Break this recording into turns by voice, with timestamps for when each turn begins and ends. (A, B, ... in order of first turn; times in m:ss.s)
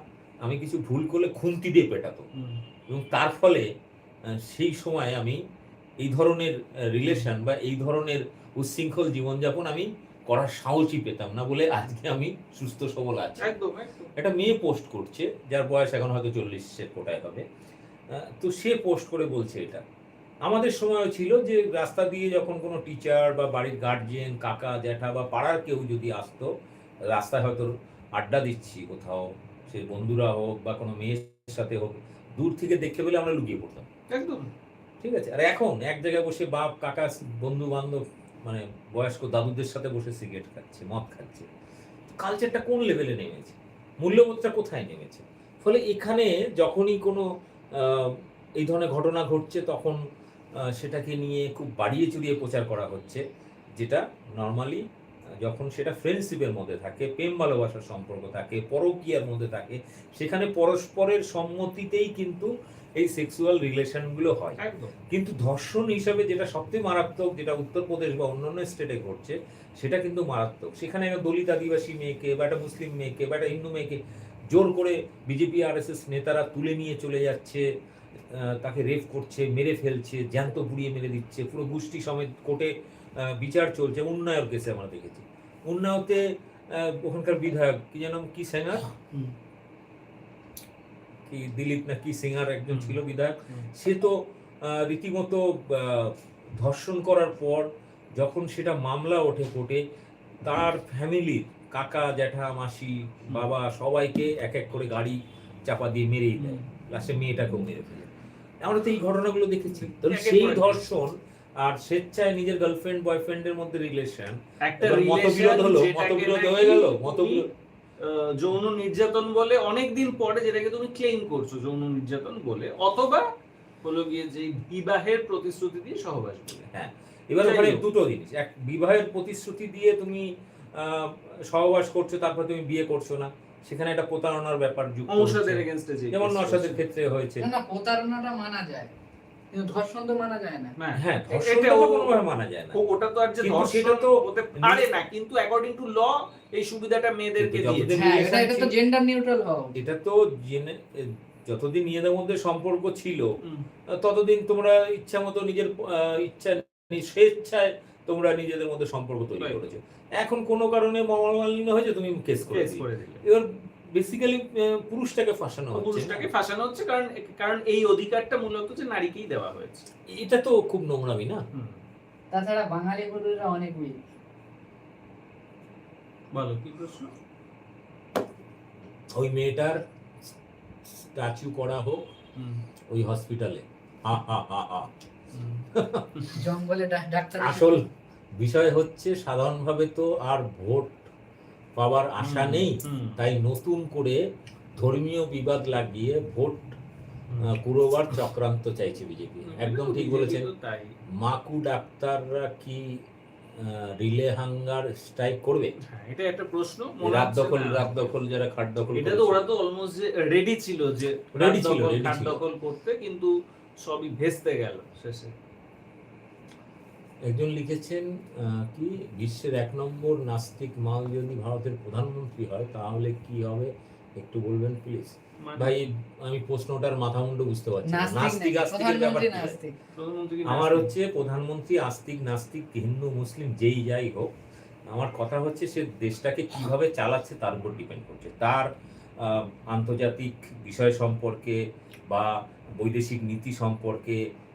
0:00.4-0:02.3 A
0:02.4-0:02.6 B
0:02.9-0:03.6 A
0:04.4-0:05.4 A
0:06.0-0:13.5 A
0:13.4-0:14.1 B
0:14.2-0:17.4 A
0:18.2-0:19.8 A
0:20.4-0:26.5 A
0:27.1-0:33.9 A
0:34.1-0:34.5 B
0:35.0-0:41.5 A
0:42.1-0:50.0 A
0:50.7-0:53.2 A
0:53.8-0:54.8 A
0:55.4-1:17.6 A
1:04.6-1:04.9 B
1:18.3-1:28.9 A
1:31.3-1:39.8 A
1:32.7-1:33.0 B
1:40.4-1:57.5 A
1:50.0-1:50.8 B
1:54.6-1:57.5 B
1:58.0-2:03.2 B
2:03.8-2:06.7 B
2:06.7-2:17.5 A
2:07.4-2:07.8 B
2:15.1-2:16.8 B
2:17.4-2:18.9 C
2:19.5-2:20.8 C
2:20.8-2:22.2 B
2:21.0-2:22.8 A
2:22.7-2:28.1 B
2:23.4-2:24.9 A
2:27.4-2:28.8 A
2:27.9-2:29.7 C
2:29.8-2:33.3 A
2:33.9-2:46.3 A
2:42.5-2:43.2 B
2:45.7-2:49.9 B
2:50.1-2:51.4 A
2:51.5-2:51.8 B
2:52.3-2:54.0 C
2:56.3-2:57.1 B
2:59.1-2:59.8 A
3:00.9-3:02.0 A
3:02.4-3:02.6 B
3:02.9-3:04.9 A
3:05.3-3:06.5 B
3:05.8-3:06.1 A
3:06.3-3:07.8 C
3:07.4-3:07.9 A
3:08.4-3:11.0 A
3:11.8-3:14.2 A
3:12.2-3:13.2 B
3:14.8-3:16.8 A
3:17.4-3:20.5 A
3:19.5-3:21.0 B
3:21.2-3:23.0 A
3:23.6-3:25.8 A
3:25.8-3:28.1 B
3:27.0-3:29.5 A
3:28.9-3:35.3 B
3:31.4-3:32.4 A
3:37.2-3:49.6 A
3:45.4-3:45.8 B
3:47.8-3:49.8 C
3:49.9-3:50.9 B
3:50.5-3:54.3 A
3:54.9-3:58.7 A
3:59.2-4:04.2 A